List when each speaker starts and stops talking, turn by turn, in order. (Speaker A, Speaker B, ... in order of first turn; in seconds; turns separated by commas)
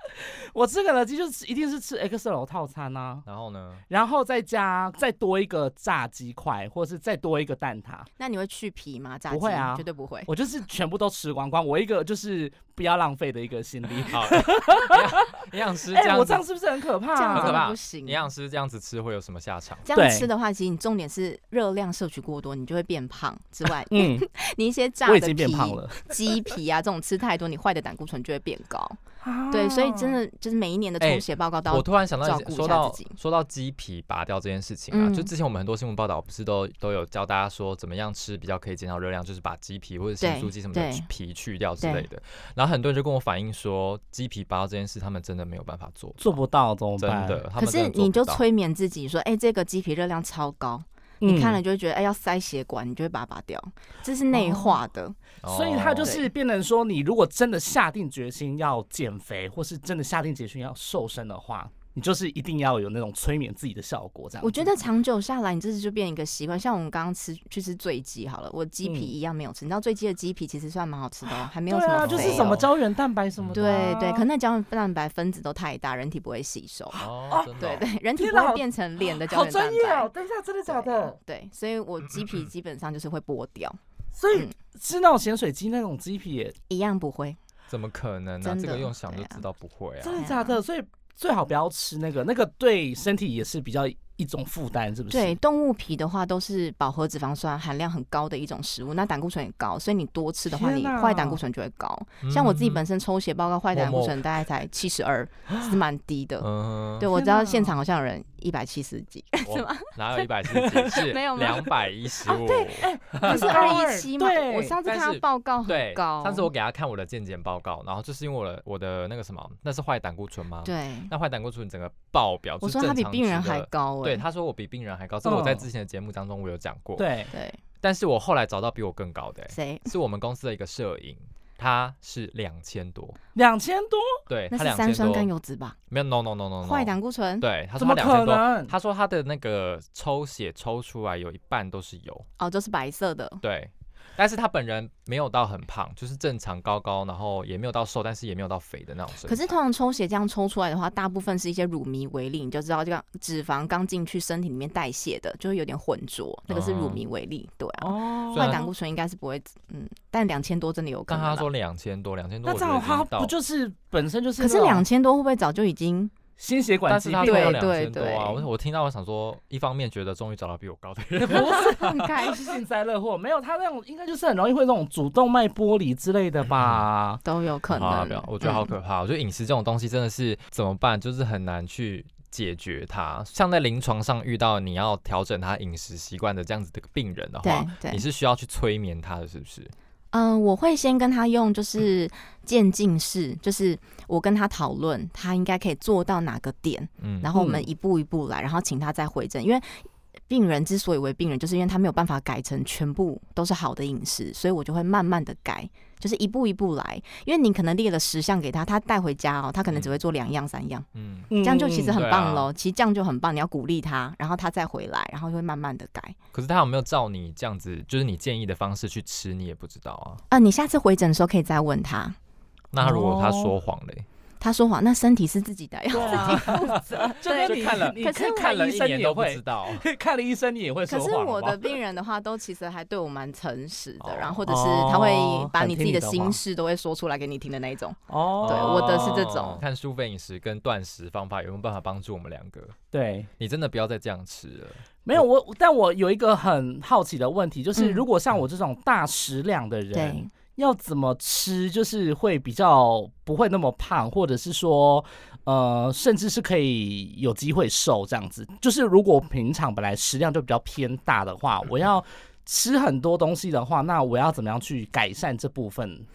Speaker A: 0.1-3.2, Speaker B: 3.2-3.8, Speaker A: 3.9-8.1, Speaker C: 8.2-10.3, Speaker A: 9.3-17.6, Speaker B: 14.1-16.4, Speaker C: 17.1-18.2, Speaker B: 17.3-19.9, Speaker C: 19.9-29.0, Speaker A: 19.9-20.3, Speaker A: 23.9-24.2, Speaker A: 25.1-26.1, Speaker A: 29.2-30.2, Speaker C: 29.5-33.1, Speaker B: 31.0-46.4, Speaker C: 34.9-35.3, Speaker C: 40.2-41.1, Speaker C: 41.8-42.1, Speaker A: 46.2-47.4, Speaker B: 47.0-48.4, Speaker C: 47.6-55.2, Speaker A: 51.2-51.6, Speaker A: 54.3-54.8, Speaker B: 55.4-56.1, Speaker A: 55.4-64.7, Speaker C: 64.4-72.6, Speaker A: 68.8-69.1, Speaker A: 71.3-74.3, Speaker B: 72.0-72.7, Speaker B: 73.4-74.0, Speaker C: 73.5-77.0, Speaker B: 76.9-77.9, Speaker A: 77.3-77.5, Speaker C: 77.6-80.1, Speaker A: 78.2-81.2, Speaker C: 80.7-83.8, Speaker A: 84.1-86.5, Speaker C: 86.7-87.4, Speaker B: 87.7-90.2, Speaker C: 88.4-89.4, Speaker A: 90.0-95.4, Speaker C: 90.1-90.6, Speaker C: 95.1-106.5, Speaker A: 100.5-101.4, Speaker B: 102.2-102.9, Speaker B: 103.7-104.3, Speaker B: 106.4-107.1, Speaker C: 107.0-116.5, Speaker A: 107.1-107.8, Speaker B: 109.5-113.4, Speaker A: 112.5-114.8, Speaker B: 114.8-127.1, Speaker C: 120.6-121.1, Speaker C: 122.6-124.2, Speaker A: 125.2-125.7, Speaker A: 127.0-127.3, Speaker C: 127.3-127.6, Speaker B: 127.8-133.2, Speaker C: 129.5-129.9, Speaker A: 133.3-134.2, Speaker B: 134.3-135.3, Speaker C: 134.5-135.8, Speaker B: 135.9-142.3, Speaker C: 136.6-137.4, Speaker A: 137.8-138.7, Speaker C: 142.4-143.4, Speaker B: 143.4-149.5, Speaker C: 149.2-161.5, Speaker B: 156.5-157.0, Speaker A: 157.8-158.7, Speaker B: 158.3-158.7, Speaker B: 161.1-163.3, Speaker A: 162.4-164.8, Speaker C: 164.4-166.1, Speaker A: 166.4-167.6, Speaker B: 166.9-172.1, Speaker C: 167.2-168.4, Speaker A: 171.2-177.2, Speaker C: 171.5-172.6, Speaker B: 176.5-176.9, Speaker C: 177.2-178.7, Speaker B: 177.7-189.7, Speaker C: 187.4-188.0, Speaker C: 190.1-210.8, Speaker B: 197.0-197.3, Speaker A: 197.3-197.7, Speaker B: 210.9-211.3, Speaker A: 211.3-212.0, Speaker C: 211.4-216.2, Speaker B: 211.9-212.5, Speaker B: 216.3-220.2, Speaker C: 220.3-222.2, Speaker B: 222.7-224.1, Speaker A: 222.8-223.5, Speaker C: 224.4-228.5, Speaker A: 225.9-231.8, Speaker B: 225.9-226.7, Speaker B: 227.4-229.8, Speaker C: 230.9-239.6, Speaker B: 234.0-234.4, Speaker A: 234.5-236.4, Speaker A: 238.1-239.3, Speaker B: 238.4-242.8, Speaker A: 242.9-243.3, Speaker B: 243.4-245.2, Speaker A: 245.1-266.1, Speaker C: 247.8-248.0, Speaker C: 249.9-250.3